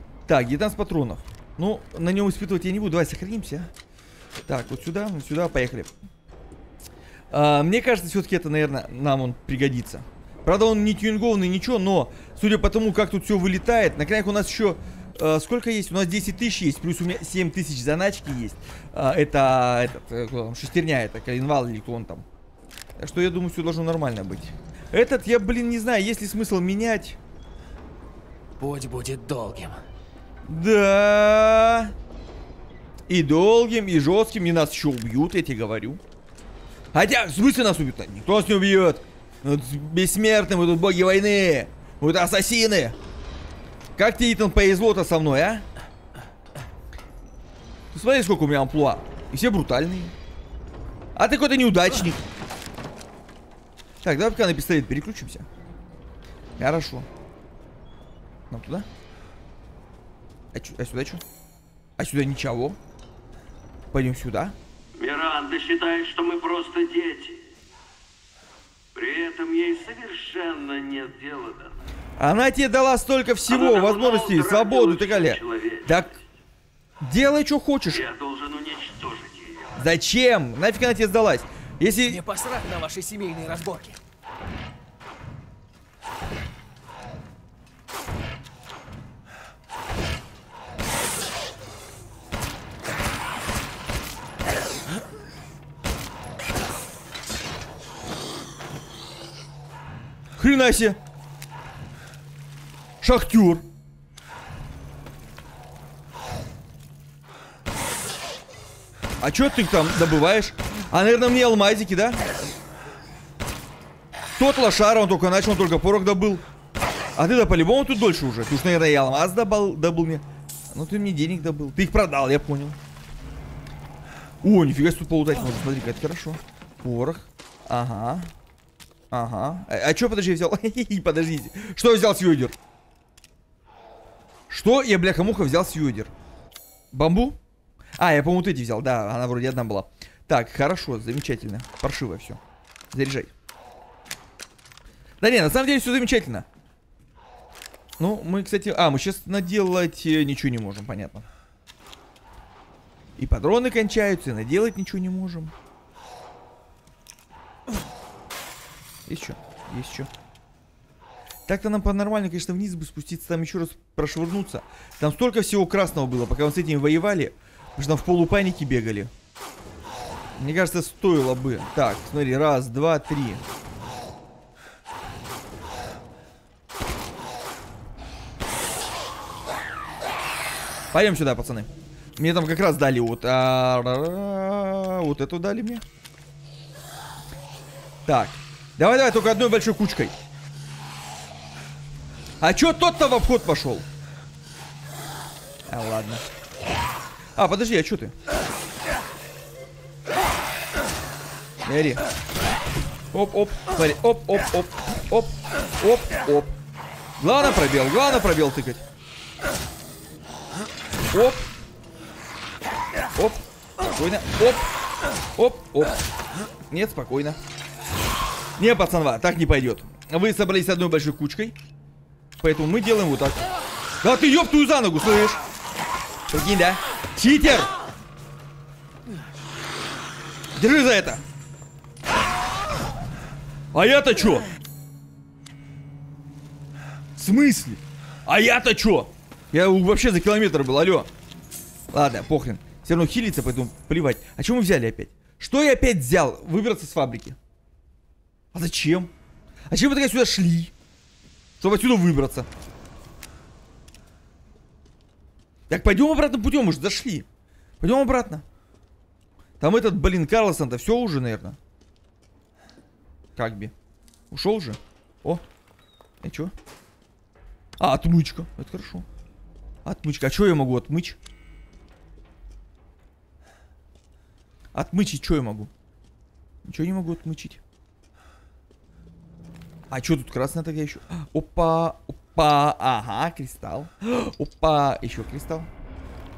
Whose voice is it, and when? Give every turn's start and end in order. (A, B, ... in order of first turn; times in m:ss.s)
0:00.3-0:03.7 A
0:04.5-0:05.9 A
0:07.3-0:22.2 A
0:23.0-0:27.2 A
0:28.6-0:29.8 B
0:30.5-0:31.9 A
0:33.1-0:36.0 A
0:36.9-0:43.0 A
0:44.0-0:45.6 A
0:47.9-0:50.1 A
0:51.2-0:52.2 A
0:54.0-0:55.5 A
0:56.6-0:57.1 A
0:58.5-0:58.9 A
1:00.5-1:01.2 A
1:02.0-1:02.8 A
1:03.9-1:04.6 A
1:05.0-1:07.5 C
1:08.9-1:11.8 C
1:12.2-1:16.1 A
1:13.5-1:16.2 C
1:17.0-1:18.0 A
1:17.9-1:19.7 C
1:19.8-1:22.2 A
1:22.0-1:24.0 B
1:40.4-1:41.0 A
1:43.0-1:43.6 A
1:49.2-1:52.3 A
1:54.4-1:56.4 A
1:57.2-2:02.8 A
2:04.4-2:08.3 A
2:09.1-2:12.6 A
2:14.5-2:16.1 A
2:16.9-2:17.4 A
2:18.0-2:22.4 A
2:22.9-2:23.3 A
2:25.2-2:26.4 A
2:28.0-2:31.2 A
2:33.2-2:35.5 A
2:39.1-2:40.1 A
2:41.5-2:49.1 A
2:50.4-2:53.4 A
3:00.9-3:05.8 A
3:08.0-3:10.1 A
3:12.4-3:13.9 A
3:15.7-3:16.2 A
3:17.4-3:18.1 A
3:21.6-3:22.0 A
3:23.1-3:26.5 A
3:27.2-3:28.8 A
3:31.1-3:31.5 A
3:33.2-3:34.7 A
3:35.4-3:36.0 A
3:36.7-3:37.4 A
3:38.6-3:41.6 A
3:42.4-3:43.4 A
3:44.0-3:45.4 A
3:46.3-3:47.7 A
3:50.6-3:51.2 A
3:53.7-3:54.4 A
3:57.2-4:01.1 A
4:01.9-4:07.4 A
4:08.5-4:09.1 A
4:09.7-4:10.7 A
4:11.6-4:12.5 A
4:15.7-4:17.2 A
4:17.8-4:18.4 A
4:19.6-4:21.6 A
4:23.4-4:23.7 A
4:24.3-4:25.4 A
4:26.2-4:26.5 A
4:27.8-4:29.1 A
4:29.8-4:31.2 A
4:34.7-4:35.7 A
4:36.6-4:37.6 A
4:39.9-4:45.7 A